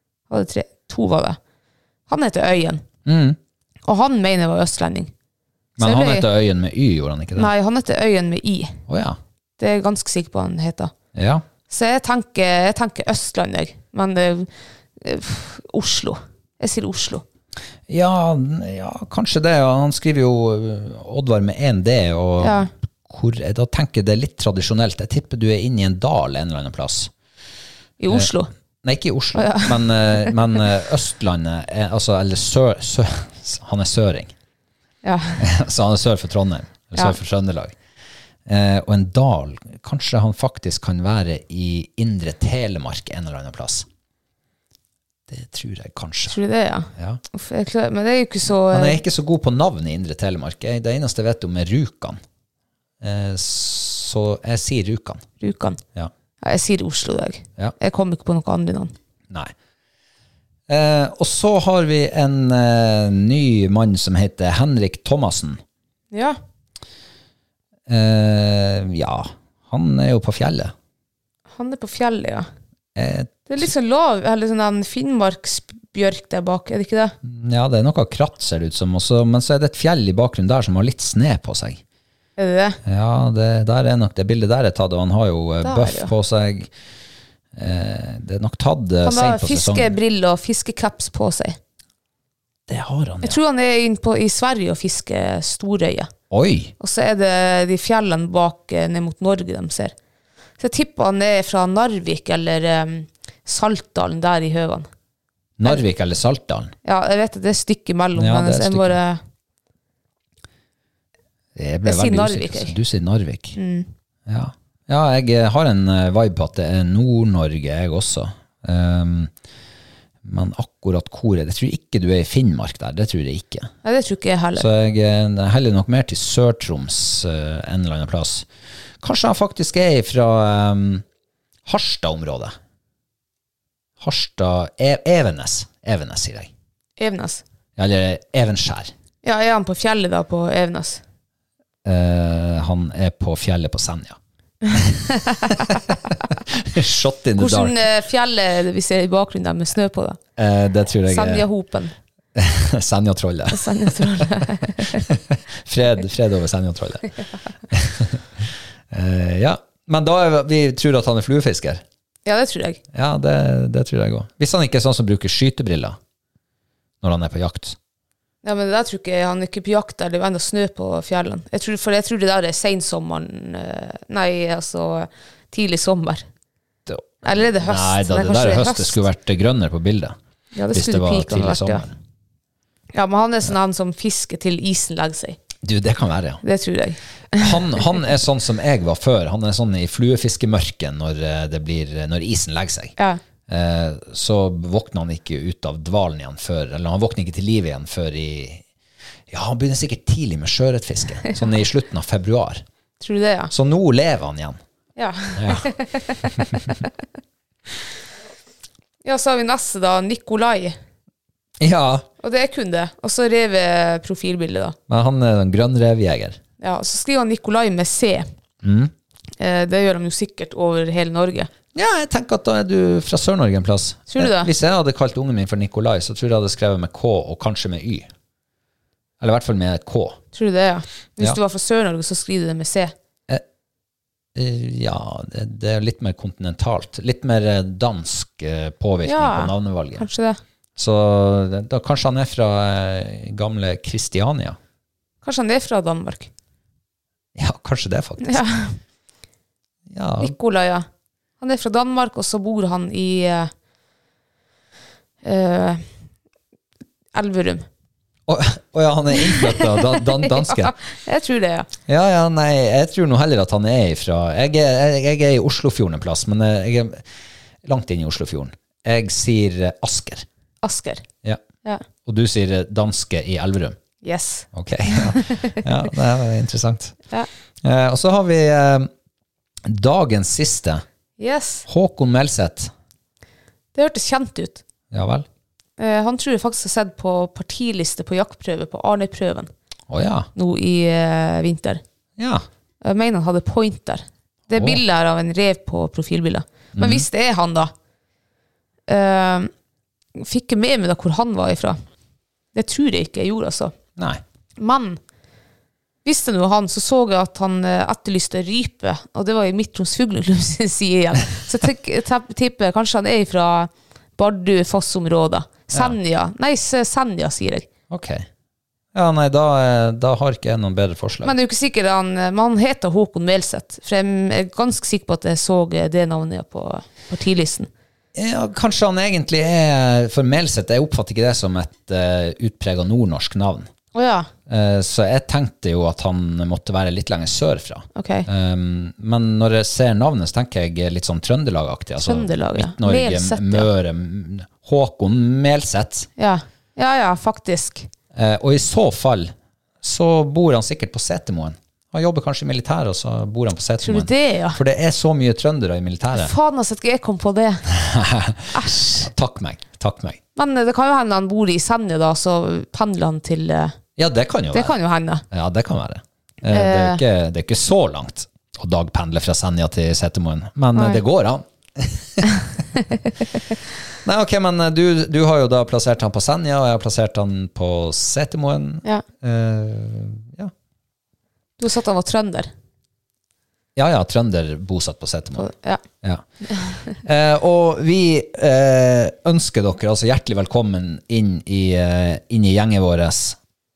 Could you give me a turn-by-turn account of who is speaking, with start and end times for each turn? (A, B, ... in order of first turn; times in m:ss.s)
0:00.3-0:01.4 A
0:02.1-0:02.8 A
0:03.0-0:03.4 B
0:03.9-0:05.1 A
0:05.8-0:07.5 B
0:05.8-0:06.3 A
0:07.4-0:08.8 A
0:08.9-0:09.2 B
0:09.6-0:10.9 A
0:11.1-0:11.4 B
0:11.7-0:17.2 A
0:17.9-0:27.1 B
0:22.4-0:22.7 A
0:28.0-0:28.5 A
0:28.8-0:34.3 B
0:29.4-0:30.3 A
0:35.0-0:35.4 A
0:35.4-0:37.8 B
0:38.4-0:43.9 B
0:45.3-0:46.4 B
0:46.3-0:49.0 A
0:47.0-0:47.2 B
0:48.7-0:52.2 B
0:53.0-0:55.2 B
0:55.4-0:55.8 A
0:56.4-0:58.9 A
1:00.7-1:05.6 B
1:06.1-1:06.4 A
1:07.9-1:10.7 B
1:11.5-1:12.5 A
1:13.0-1:13.3 B
1:13.5-1:17.1 A
1:17.2-1:21.8 B
1:22.4-1:22.8 A
1:22.8-1:26.7 B
1:25.6-1:26.1 A
1:27.5-1:29.9 B
1:29.0-1:31.6 A
1:32.7-1:33.4 B
1:33.2-1:36.1 A
1:36.3-1:36.7 B
1:36.8-1:39.9 A
1:40.6-1:44.9 A
1:45.6-1:46.7 B
1:46.8-1:49.2 A
1:48.1-1:49.0 B
1:51.5-1:53.6 B
1:51.8-1:52.8 A
1:53.6-1:53.9 A
1:54.3-1:59.3 B
2:00.2-2:03.7 B
2:03.8-2:04.7 A
2:04.6-2:08.5 B
2:09.0-2:11.0 B
2:11.6-2:12.5 B
2:14.0-2:16.5 B
2:17.0-2:17.4 A
2:17.8-2:18.9 B
2:19.2-2:21.0 A
2:21.8-2:24.2 B
2:24.7-2:27.8 B
2:25.3-2:25.6 A
2:27.4-2:30.2 A
2:30.4-2:31.5 B
2:31.1-2:31.9 A
2:32.3-2:37.1 B
2:33.5-2:35.0 A
2:37.7-2:41.8 B
2:42.2-2:42.8 A
2:42.9-2:46.0 B
2:47.0-2:47.8 B
2:48.4-2:56.2 A
2:56.9-3:00.2 B
2:57.2-2:59.0 A
3:00.5-3:01.9 A
3:00.7-3:01.9 B
3:02.9-3:05.4 A
3:05.6-3:06.4 B
3:06.4-3:08.0 A
3:07.4-3:12.9 B
3:13.5-3:18.6 B
3:19.3-3:22.6 B
3:23.0-3:23.5 A
3:23.5-3:24.6 B
3:25.0-3:26.5 A
3:25.3-3:25.7 B
3:29.0-3:30.8 A
3:31.6-3:32.1 B
3:32.2-3:34.8 A
3:34.9-3:36.4 B
3:36.6-3:38.3 A
3:38.6-3:38.9 B
3:39.4-3:41.5 A
3:41.7-3:48.1 B
3:44.1-3:44.5 A
3:49.2-3:50.2 B
3:50.3-3:52.9 A
3:54.3-4:00.1 B
3:59.0-4:00.4 A
4:00.8-4:04.6 B
4:05.2-4:06.3 A
4:07.4-4:08.4 B
4:08.2-4:08.8 A
4:09.9-4:10.3 B
4:10.2-4:10.8 A
4:11.4-4:13.5 A
4:15.2-4:15.8 A
4:17.1-4:17.6 A
4:18.3-4:20.7 B
4:19.2-4:21.7 A
4:21.9-4:27.0 B
4:27.6-4:30.2 B
4:30.6-4:31.0 A
4:32.0-4:33.8 B
4:34.0-4:35.6 A
4:34.5-4:37.0 B
4:37.6-4:38.9 B
4:39.6-4:40.8 B
4:41.2-4:41.6 A
4:41.7-4:42.7 B
4:43.7-4:44.6 A
4:44.9-4:45.3 B
4:45.8-4:49.5 A
4:49.9-4:50.3 B
4:50.4-4:51.8 A
4:52.2-4:52.4 B
4:52.8-4:57.7 A
4:54.5-4:54.8 B
4:56.7-4:57.0 B
4:58.9-4:59.5 A
5:00.2-5:01.8 A
5:02.5-5:03.7 A
5:04.0-5:04.2 B
5:04.6-5:05.0 A
5:06.0-5:17.7 A
5:15.7-5:16.0 B
5:17.9-5:18.3 B
5:18.9-5:21.3 B
5:21.2-5:27.7 A
5:28.1-5:33.7 B
5:33.9-5:34.3 A
5:34.5-5:46.1 B
5:37.9-5:38.3 A
5:42.0-5:43.7 A
5:46.2-5:47.9 A
5:48.1-5:56.3 B
5:53.8-5:54.6 A
5:56.1-5:57.7 A
5:57.7-6:00.2 B
5:58.5-5:59.1 A
6:00.4-6:03.7 A
6:04.0-6:04.8 B
6:04.5-6:05.2 A
6:05.3-6:12.3 B
6:06.5-6:07.0 A
6:10.7-6:11.0 A
6:14.0-6:20.5 B
6:21.6-6:22.5 A
6:23.7-6:25.5 B
6:25.4-6:25.8 A
6:26.5-6:26.8 A
6:26.8-6:33.4 B